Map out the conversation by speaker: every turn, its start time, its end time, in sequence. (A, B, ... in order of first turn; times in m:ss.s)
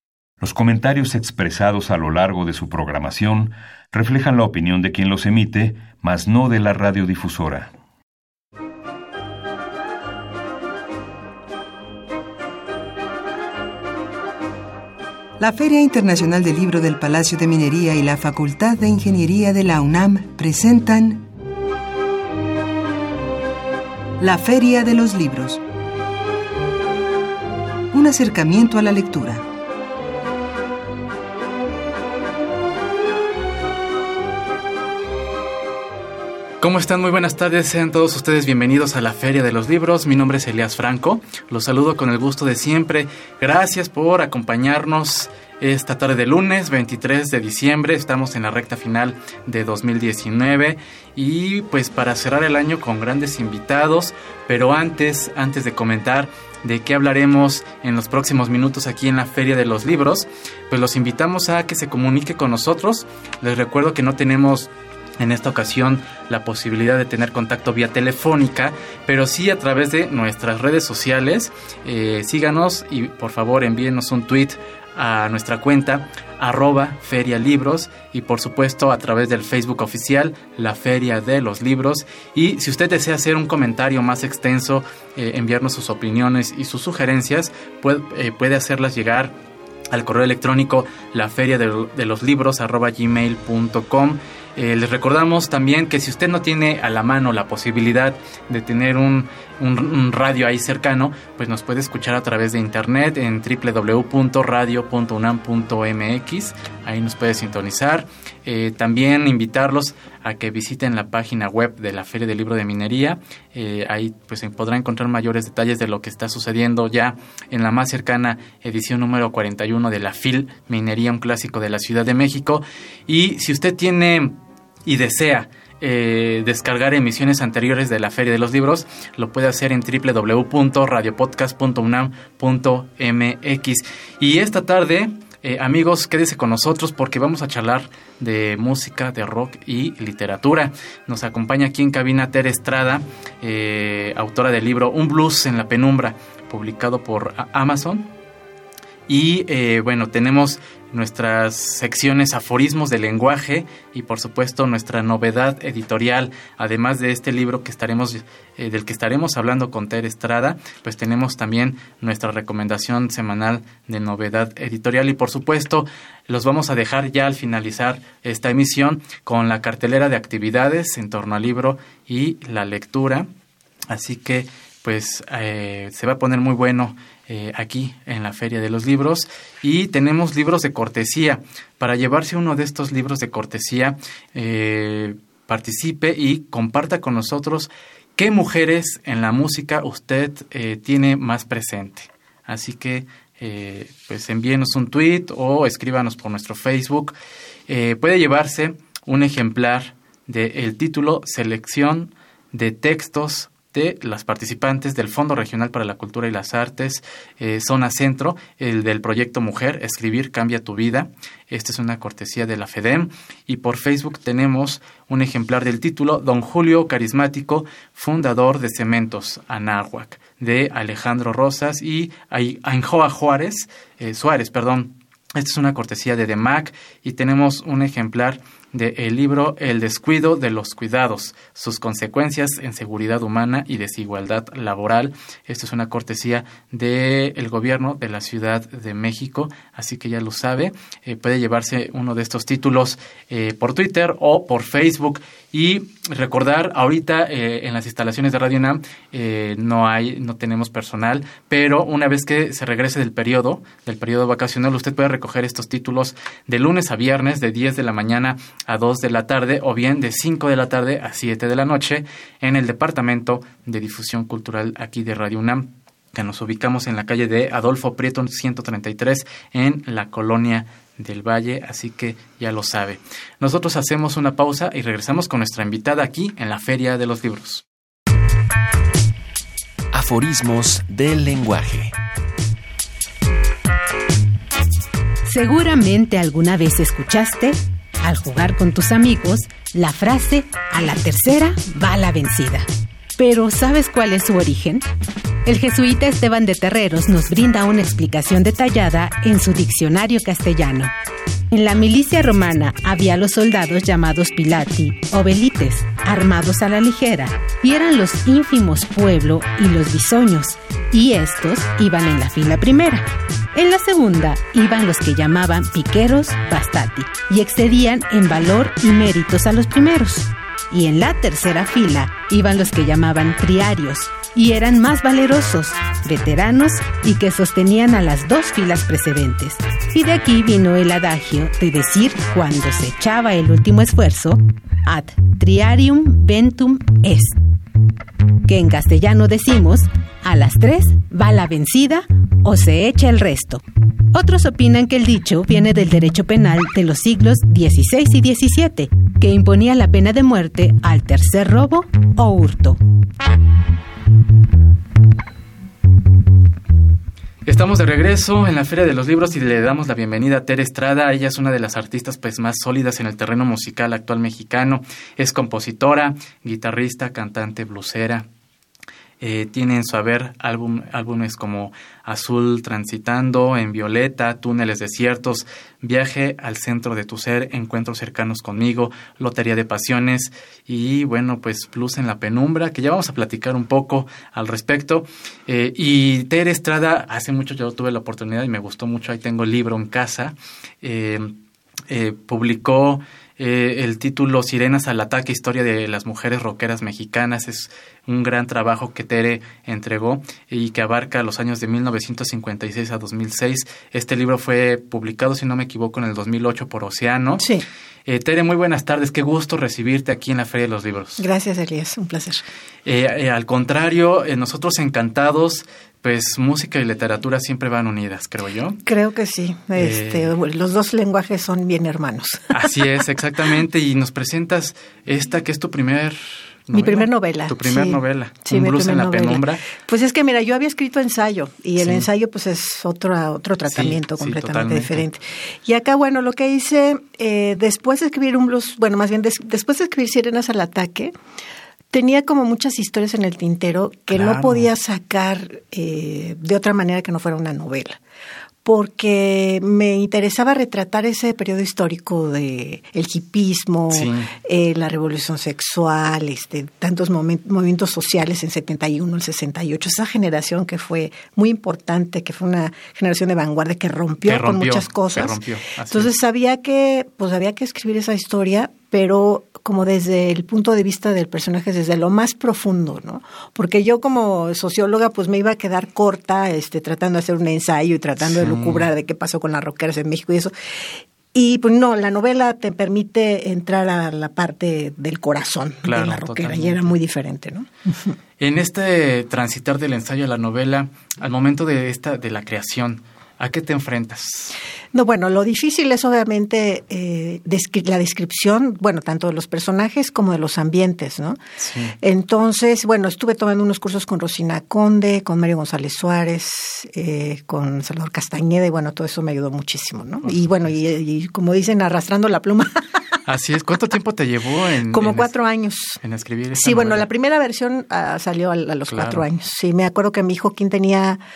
0:00.4-0:07.7 A
0:15.4-0:21.3 B
0:24.2-0:25.6 B
0:27.9-0:29.5 B
0:36.6-1:29.3 C
1:29.9-2:28.1 C
2:29.1-2:53.3 C
2:53.9-3:17.2 C
3:17.7-4:37.6 C
4:39.9-4:41.9 D
4:45.3-4:54.9 E
4:55.4-5:00.9 E
5:01.5-5:37.4 E
5:38.5-5:52.8 E
5:57.5-6:08.3 C
6:09.2-6:31.4 C
6:31.9-6:47.5 C
6:47.4-6:47.7 F
6:48.1-6:51.2 C
6:51.2-6:52.4 F
6:52.9-6:58.8 C
6:58.9-7:02.5 F
6:59.8-7:00.3 C
7:02.5-7:09.7 C
7:06.7-7:21.2 F
7:11.8-7:12.1 C
7:13.7-7:15.1 C
7:21.9-7:28.0 F
7:24.1-7:24.7 C
7:28.6-7:45.4 F
7:33.9-7:34.3 C
7:44.2-7:46.1 C
7:45.9-8:00.5 F
7:58.2-7:58.9 C
8:01.3-8:08.2 F
8:05.8-8:07.0 C
8:08.4-8:14.6 C
8:14.9-8:21.4 F
8:21.6-8:22.0 C
8:22.0-8:32.7 F
8:30.2-8:30.8 C
8:33.3-8:35.3 C
8:34.9-8:36.0 F
8:36.0-8:37.1 C
8:36.5-8:41.2 F
8:38.9-8:39.2 C